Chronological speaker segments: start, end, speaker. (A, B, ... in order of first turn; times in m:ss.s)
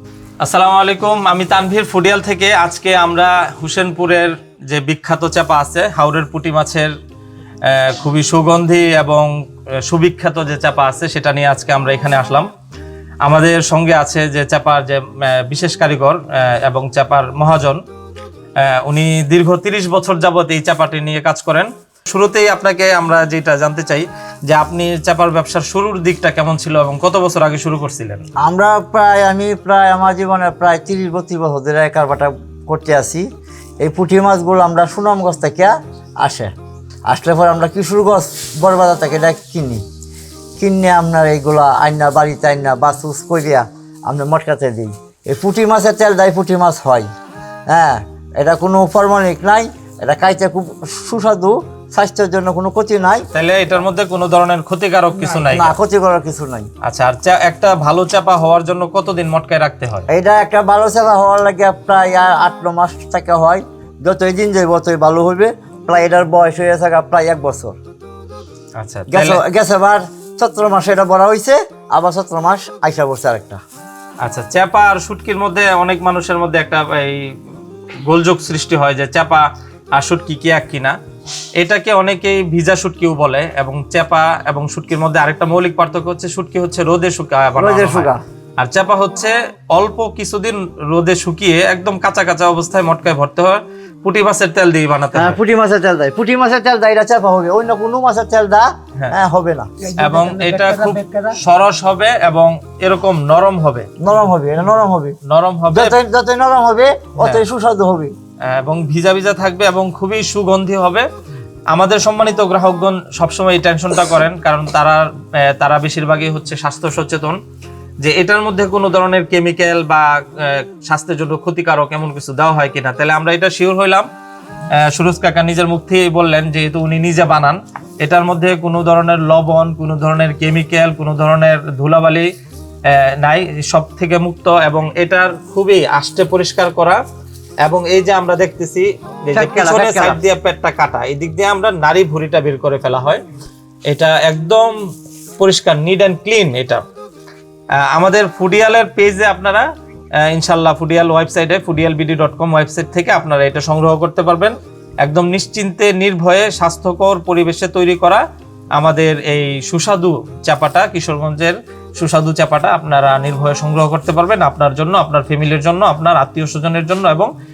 0:00.4-0:06.9 A
0:07.6-0:09.3 A
0:09.8-0:12.5 A
0:13.2-0:17.8 A
0:18.6-0:28.2 A
0:28.4-0:33.2 B
0:33.8-0:36.5 B
0:37.1-0:39.8 B
0:40.6-0:47.1 B
0:47.7-0:53.3 B
0:53.3-0:55.8 A
0:55.3-0:56.7 B
0:56.8-1:00.0 A
1:00.1-1:07.8 B
1:08.8-1:09.4 A
1:09.1-1:13.6 B
1:14.2-1:17.3 A
1:18.0-1:20.9 A
1:21.6-1:35.4 A
1:27.6-1:28.2 B
1:35.1-1:41.3 B
1:40.0-1:43.9 A
1:44.0-1:45.2 B
1:45.2-1:45.9 A
1:45.7-1:48.1 B
1:48.4-1:51.1 A
1:51.7-1:57.4 A
1:58.0-2:04.1 A
2:04.8-2:12.3 A
2:12.8-2:17.0 A
2:17.6-2:23.2 A
2:19.3-2:20.2 B
2:23.9-2:24.7 A
2:25.4-2:26.8 A
2:27.9-2:29.6 A
2:30.2-2:38.2 A
2:38.7-2:47.3 A